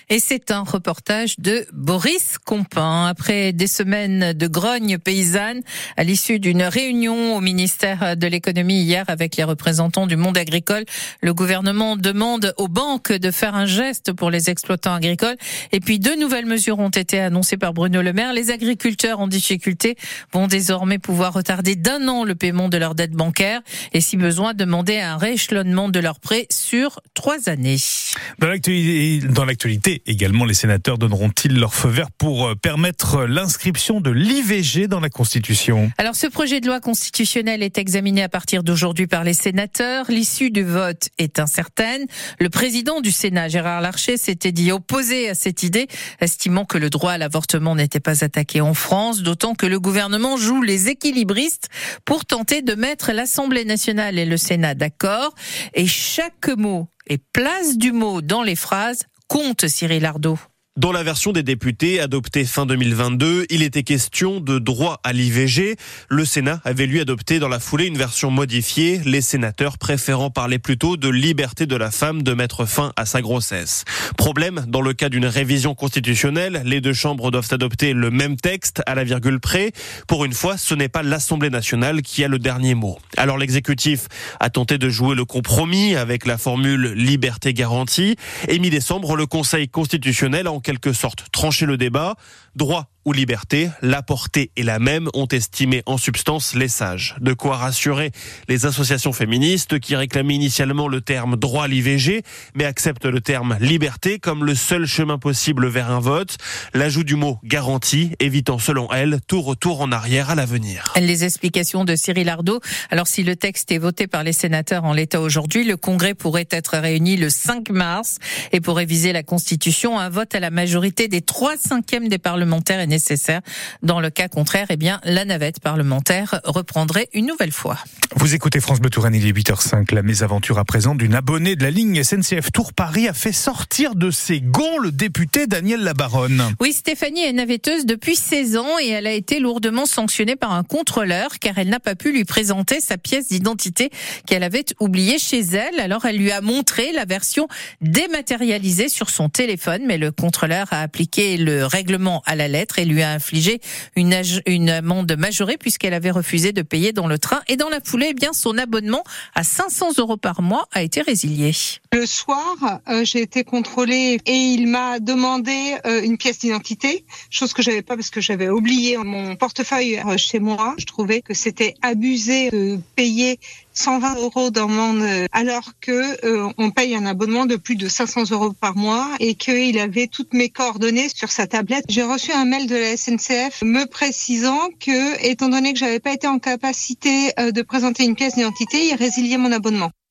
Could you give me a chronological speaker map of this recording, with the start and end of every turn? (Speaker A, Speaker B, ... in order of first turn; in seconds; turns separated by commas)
Speaker A: 0.1-28.6, Speaker B: 28.4-35.9, Speaker A: 30.9-31.4, Speaker A: 33.4-34.1, Speaker A: 36.0-60.2, Speaker C: 56.5-56.9, Speaker C: 58.6-59.1, Speaker C: 59.7-60.4, Speaker D: 60.8-111.0, Speaker A: 111.0-127.8, Speaker C: 111.1-113.6, Speaker B: 128.2-136.5, Speaker A: 135.6-135.9, Speaker A: 136.6-161.8, Speaker C: 161.9-189.9